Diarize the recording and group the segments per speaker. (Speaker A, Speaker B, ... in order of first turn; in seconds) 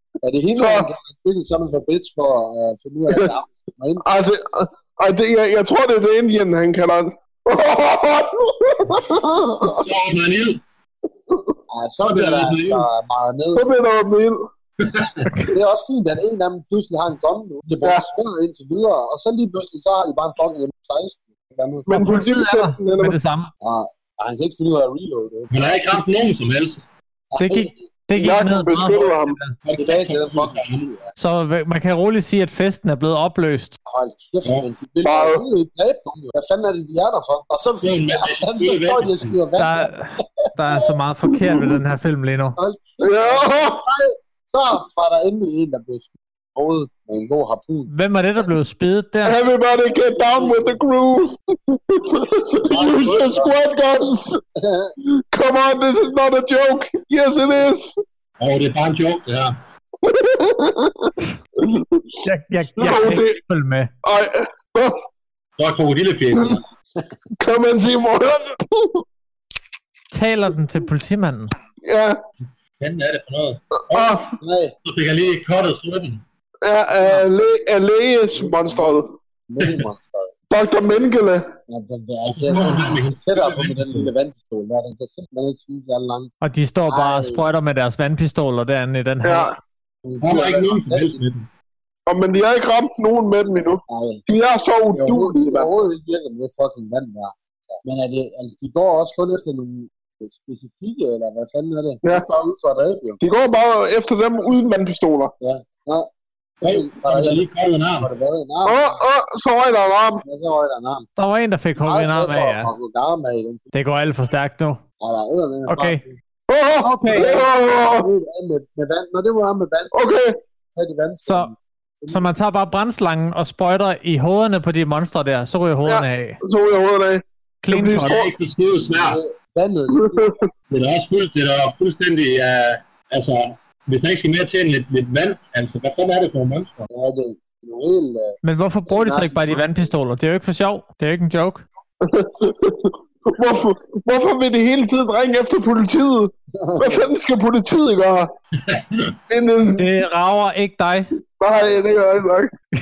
Speaker A: 0.2-4.1, 11.7-13.7, 15.5-21.9, 23.6-25.7, 27.3-27.9, 29.8-31.1, 33.9-40.9, 42.6-47.9, 50.2-50.8, 52.6-53.6, 54.5-55.0, 74.4-74.8, 78.3-80.3, 81.7-86.3, 86.9-87.5, 90.0-91.2, 93.9-94.2, 94.9-103.2, 105.4-106.1, 106.6-107.4, 108.0-109.0, 110.2-111.1, 111.8-113.7, 115.0-116.2, 117.1-119.9, 120.8-122.3, 128.8-130.5, 136.9-139.9, 146.5-147.1, 151.5-151.8
Speaker B: 0.6-0.9, 4.0-9.8, 11.3-11.6, 13.6-14.5, 21.9-23.2, 28.1-29.4, 35.0-35.4, 43.0-43.9, 49.2-54.4, 55.3-58.0, 60.0-62.2, 62.8-63.4, 64.0-65.0, 67.4-69.0, 71.8-72.2, 73.9-74.4, 76.6-79.1, 80.5-81.5, 89.2-89.5, 92.1-95.7, 103.2-105.3, 108.7-110.2, 116.5-118.1, 119.9-120.4, 125.9-128.3, 129.9-130.5, 142.0-148.3, 149.3-149.9, 151.4-152.5
Speaker C: 9.6-10.6, 12.1-12.9, 14.8-15.2, 25.5-26.8, 29.6-30.9, 37.8-39.4, 58.4-59.6, 65.6-66.6, 72.8-74.2, 74.8-76.2, 82.3-84.1, 90.2-91.5, 106.6-108.1, 128.0-129.2, 130.7-136.9, 148.6-149.2
Speaker D: 21.9-23.5, 27.4-29.6, 31.2-33.8, 39.6-42.6, 47.9-49.4, 62.2-63.9, 70.1-71.5, 86.4-89.5, 111.2-112.7, 113.7-114.8, 115.7-116.0, 116.8-117.4, 121.2-121.5, 122.1-126.4, 127.6-128.2, 138.4-141.7, 149.7-151.1